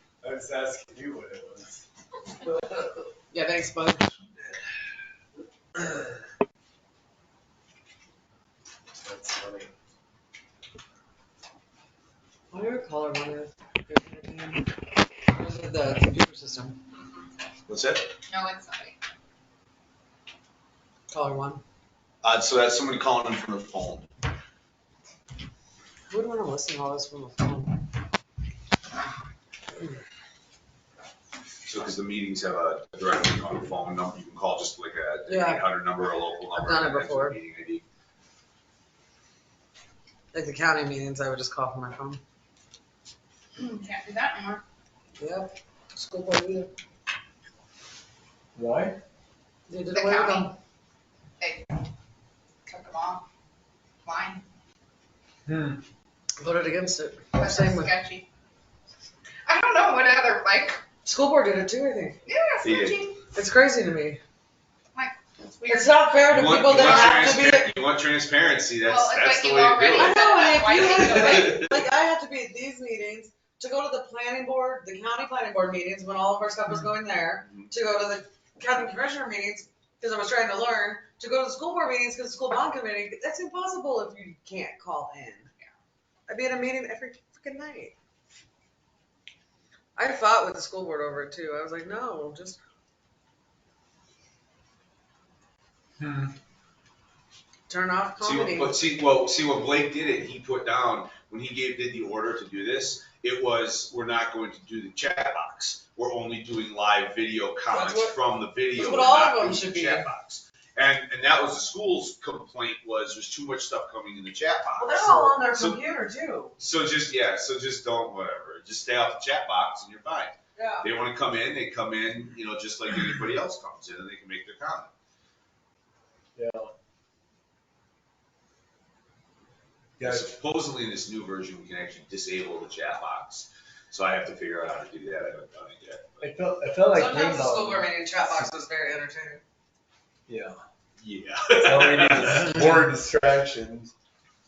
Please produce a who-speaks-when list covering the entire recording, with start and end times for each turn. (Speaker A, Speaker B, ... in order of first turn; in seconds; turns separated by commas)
Speaker A: 0.2-1.8, Speaker A: 2.4-3.0, Speaker B: 3.3-4.0, Speaker A: 9.0-9.7, Speaker B: 12.5-14.7, Speaker B: 15.3-16.8, Speaker C: 16.9-17.2, Speaker D: 17.7-18.1, Speaker C: 18.3-19.0, Speaker B: 21.1-21.6, Speaker D: 22.2-24.1, Speaker B: 26.1-27.8, Speaker D: 31.6-37.8, Speaker B: 35.3-35.7, Speaker B: 36.5-37.4, Speaker B: 40.3-42.2, Speaker C: 43.5-44.6, Speaker B: 45.2-46.7, Speaker A: 48.5-49.0, Speaker B: 49.7-50.5, Speaker C: 49.9-50.5, Speaker C: 51.4-51.8, Speaker C: 52.6-53.2, Speaker C: 54.0-54.4, Speaker A: 55.5-55.8, Speaker B: 56.4-57.9, Speaker C: 57.3-58.2, Speaker C: 59.4-60.8, Speaker B: 61.0-62.2, Speaker C: 62.2-63.1, Speaker D: 62.6-63.1, Speaker B: 63.3-64.2, Speaker C: 64.9-67.2, Speaker B: 65.7-67.8, Speaker D: 66.3-71.8, Speaker C: 68.8-71.6, Speaker B: 69.9-85.5, Speaker D: 77.4-77.7, Speaker B: 86.3-87.9, Speaker B: 90.0-92.6, Speaker A: 96.0-96.3, Speaker B: 97.7-98.8, Speaker D: 98.2-115.8, Speaker B: 107.7-108.2, Speaker B: 108.7-110.1, Speaker B: 114.8-116.5, Speaker D: 116.6-124.9, Speaker B: 120.5-120.9, Speaker A: 126.3-126.7, Speaker A: 130.0-130.3, Speaker D: 130.0-136.3, Speaker A: 136.2-137.9, Speaker B: 136.9-139.4, Speaker A: 140.3-140.6, Speaker D: 141.0-142.6, Speaker A: 141.6-143.9